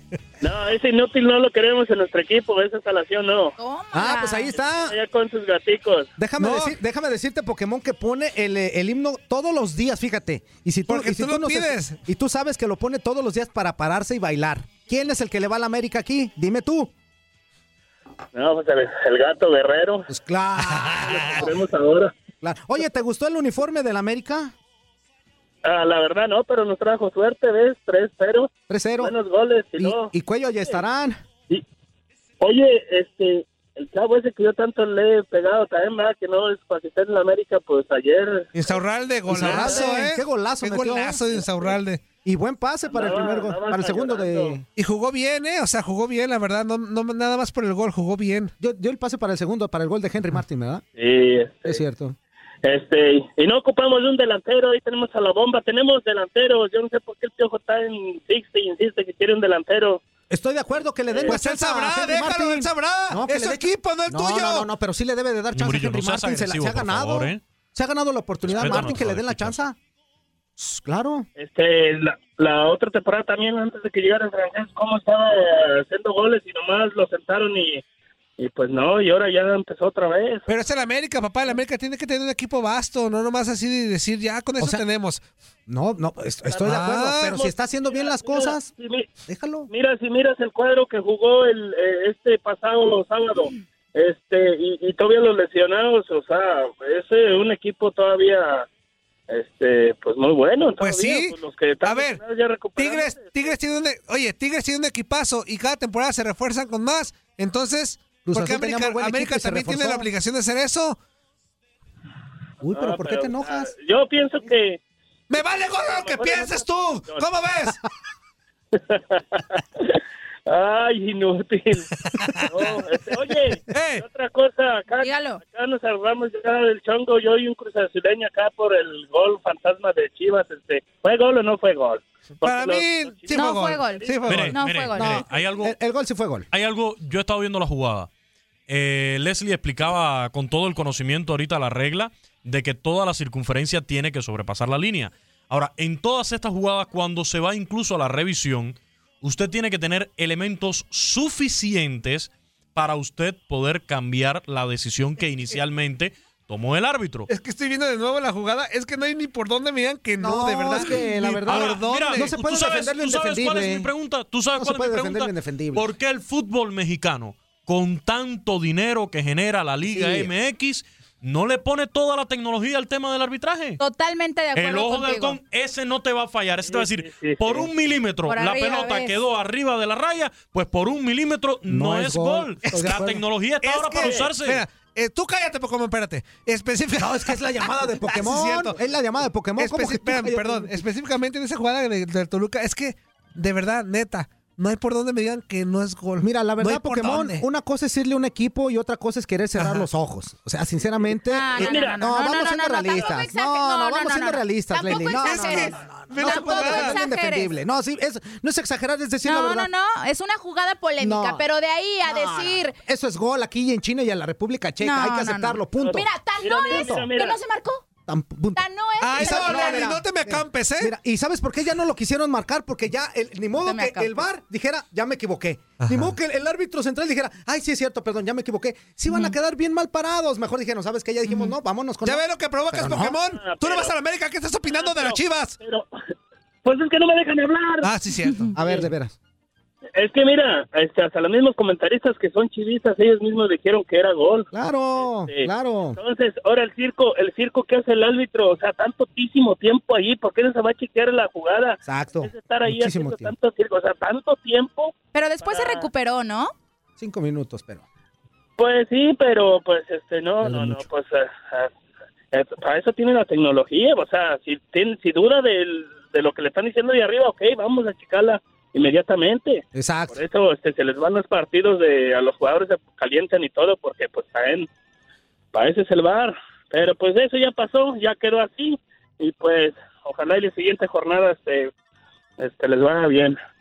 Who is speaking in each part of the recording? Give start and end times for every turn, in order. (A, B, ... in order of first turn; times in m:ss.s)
0:00.4-0:03.6 A
0:03.6-0:04.6 B
0:03.9-0:04.9 C
0:04.7-0:06.1 A
0:06.2-0:16.9 C
0:06.4-0:06.8 D
0:10.9-0:12.0 D
0:18.3-0:20.1 A
0:20.1-0:21.6 C
0:20.6-0:21.5 D
0:21.1-0:22.1 A
0:22.4-0:24.5 C
0:25.6-0:30.1 A
0:28.7-0:29.1 C
0:29.8-0:31.2 C
0:32.4-0:38.8 A
0:38.6-0:42.1 D
0:39.3-0:41.4 C
0:39.3-0:39.8 A
0:42.2-0:44.6 C
0:42.9-0:44.6 A
0:44.8-0:48.5 D
0:48.6-0:50.8 C
0:51.0-0:51.8 A
0:51.6-0:52.2 C
0:52.6-1:00.0 A
1:00.3-1:09.8 C
1:01.1-1:01.4 A
1:01.3-1:04.7 D
1:05.6-1:07.4 E
1:08.4-1:09.6 E
1:08.6-1:09.1 D
1:10.6-1:11.3 C
1:11.4-1:17.8 A
1:18.4-1:20.5 A
1:20.5-1:25.2 D
1:25.7-1:28.7 C
1:26.5-1:29.1 A
1:26.6-1:27.4 D
1:29.3-1:29.7 C
1:29.7-1:38.7 A
1:39.3-1:43.6 A
1:40.8-1:42.2 D
1:42.8-1:51.0 D
1:48.2-1:50.1 C
1:52.6-1:53.7 C
1:52.7-1:54.8 A
1:55.3-1:57.8 D
1:55.4-1:57.3 A
1:58.7-1:59.6 A
2:00.5-2:01.9 A
2:02.2-2:02.8 D
2:02.5-2:14.2 A
2:03.7-2:04.0 D
2:05.0-2:05.4 B
2:12.4-2:14.6 D
2:13.3-2:15.2 B
2:14.2-2:15.8 E
2:15.0-2:16.5 C
2:16.5-2:18.1 E
2:18.7-2:37.3 E
2:37.3-2:42.3 D
2:40.2-2:43.9 C
2:41.5-2:53.8 E
2:44.6-2:45.9 C
2:49.9-2:50.3 C
2:53.8-2:55.4 B
2:54.6-3:04.6 E
2:56.6-2:57.7 A
2:58.3-2:59.2 B
3:01.7-3:03.2 C
3:02.7-3:03.0 D
3:03.6-3:07.4 D
3:04.0-3:04.3 A
3:07.0-3:10.8 C
3:08.0-3:08.8 D
3:09.6-3:17.4 D
3:16.2-3:29.7 C
3:19.6-3:19.9 D
3:21.3-3:27.5 B
3:21.6-3:22.0 A
3:25.2-3:27.0 D
3:29.2-3:32.8 B
3:31.0-3:31.4 C
3:32.0-3:36.1 C
3:34.8-3:37.8 B
3:35.8-3:37.4 A
3:36.7-3:37.1 C
3:38.1-3:38.6 C
3:38.6-3:40.0 B
3:39.0-3:40.9 D
3:39.2-3:53.2 C
3:43.6-3:44.2 B
3:45.8-3:46.1 D
3:49.1-3:49.4 B
3:51.3-3:51.5 B
3:52.0-3:55.6 D
3:53.3-3:54.0 A
3:54.7-3:55.9 A
3:56.6-3:57.9 A
3:57.8-3:58.5 D
3:58.6-3:59.2 C
3:58.6-3:58.9 A
4:00.0-4:15.9 A
4:04.5-4:06.0 C
4:11.8-4:13.3 C
4:15.1-4:16.5 B
4:17.0-4:17.8 C
4:18.6-4:21.7 A
4:20.4-4:20.8 C
4:22.3-4:34.7 A
4:29.7-4:30.2 C
4:35.5-4:41.7 A
4:42.4-4:43.4 A